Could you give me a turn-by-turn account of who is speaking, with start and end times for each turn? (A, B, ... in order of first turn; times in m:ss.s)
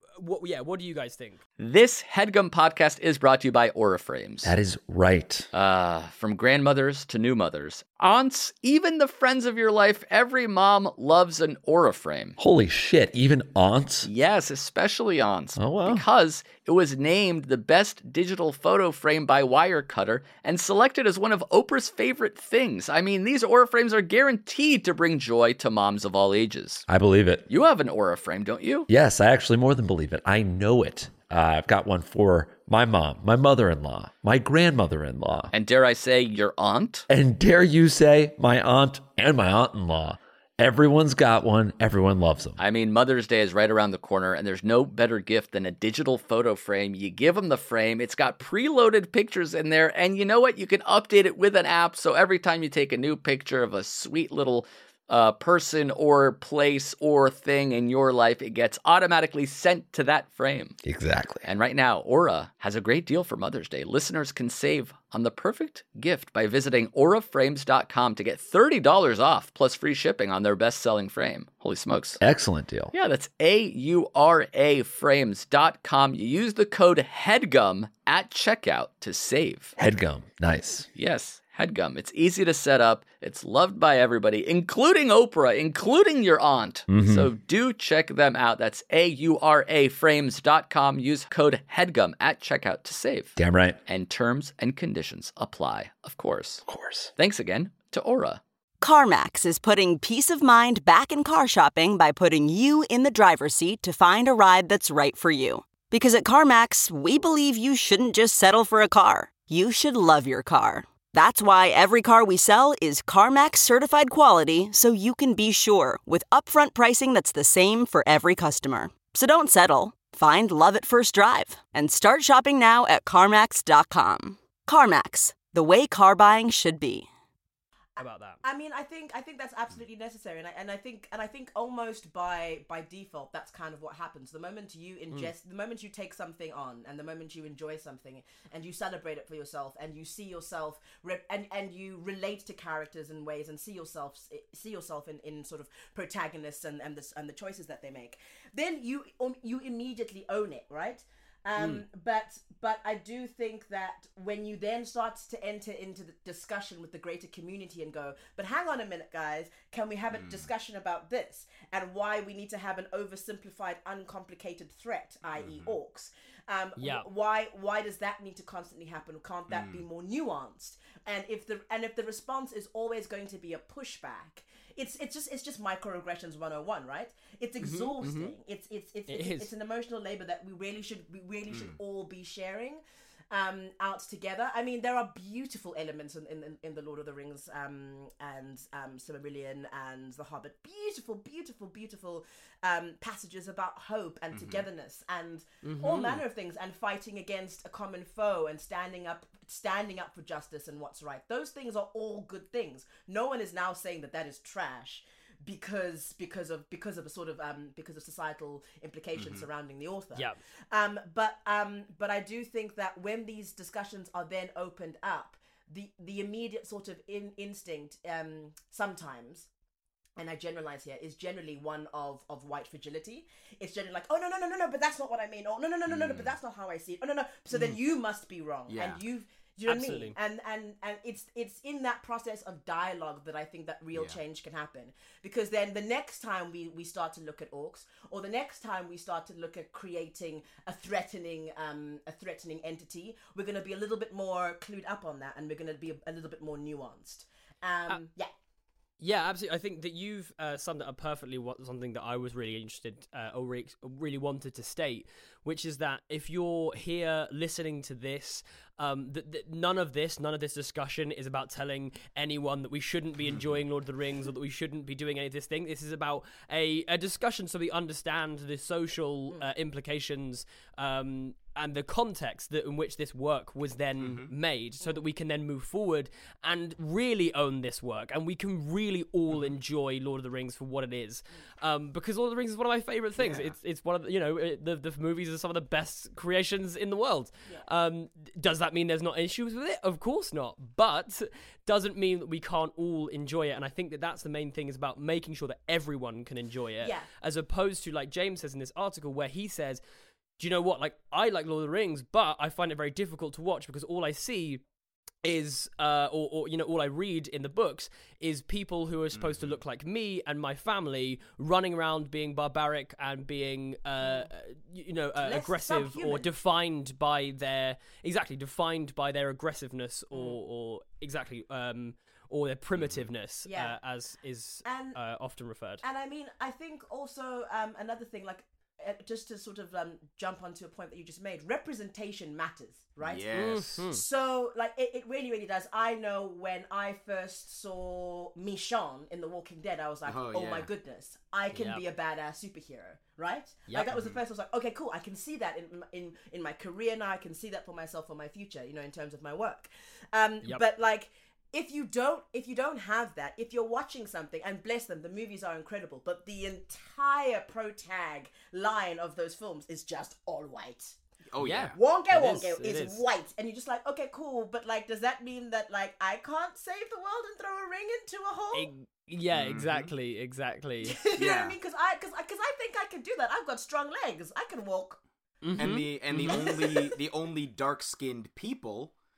0:00.2-0:01.4 A
0:01.6-0:04.5 B
0:04.4-0:05.5 C
0:05.5-0:12.4 B
0:12.4-0:14.1 C
0:14.0-0:26.9 B
0:15.6-0:16.0 C
0:26.9-0:27.4 C
0:27.5-0:28.9 B
0:28.9-0:35.5 C
0:35.5-0:37.0 B
0:37.1-0:42.6 C
0:42.6-1:00.8 B
1:00.8-1:01.5 C
1:01.4-1:12.2 B
1:12.2-1:12.9 C
1:12.9-1:19.7 B
1:19.8-1:20.9 C
1:20.9-1:33.4 B
1:26.9-1:27.3 C
1:33.4-1:33.8 C
1:33.9-1:36.6 B
1:36.6-1:37.1 C
1:37.2-1:38.4 B
1:38.8-2:07.1 D
2:08.0-2:08.4 A
2:08.0-3:39.5 E
2:31.6-2:31.8 A
2:40.1-2:40.5 F
2:45.4-2:45.8 F
2:46.8-2:47.1 A
2:49.5-2:49.8 F
2:57.6-2:58.3 A
2:59.1-2:59.5 A
3:01.5-3:01.8 F
3:14.3-3:14.6 F
3:15.6-3:16.2 A
3:29.2-3:29.4 F
3:40.2-4:08.3 E
3:45.9-3:46.3 F
3:48.7-3:49.0 F
3:49.7-3:50.2 A
4:09.0-4:59.8 A
4:23.3-4:23.6 F
4:34.0-4:34.3 F
4:43.2-4:43.5 E
4:56.8-4:57.1 E
5:00.4-5:04.6 A
5:05.2-5:25.8 A
5:09.1-5:09.6 F
5:14.0-5:14.3 E
5:15.2-5:16.3 E
5:20.1-5:20.4 E
5:22.8-5:23.1 F
5:23.4-5:23.8 E
5:24.6-5:25.0 E
5:25.8-6:01.0 E
5:33.0-5:33.8 F
5:33.3-5:34.0 A
5:40.1-5:40.7 F
5:41.5-5:41.8 A
5:43.7-5:43.9 A
5:43.9-5:44.2 F
6:01.3-6:01.8 F
6:01.4-6:03.0 A
6:01.7-6:08.7 E
6:08.5-6:11.0 A
6:09.3-6:09.9 F
6:10.8-6:15.0 E
6:11.2-6:11.6 F
6:15.4-6:16.5 A
6:15.6-6:18.9 F
6:16.2-6:17.0 E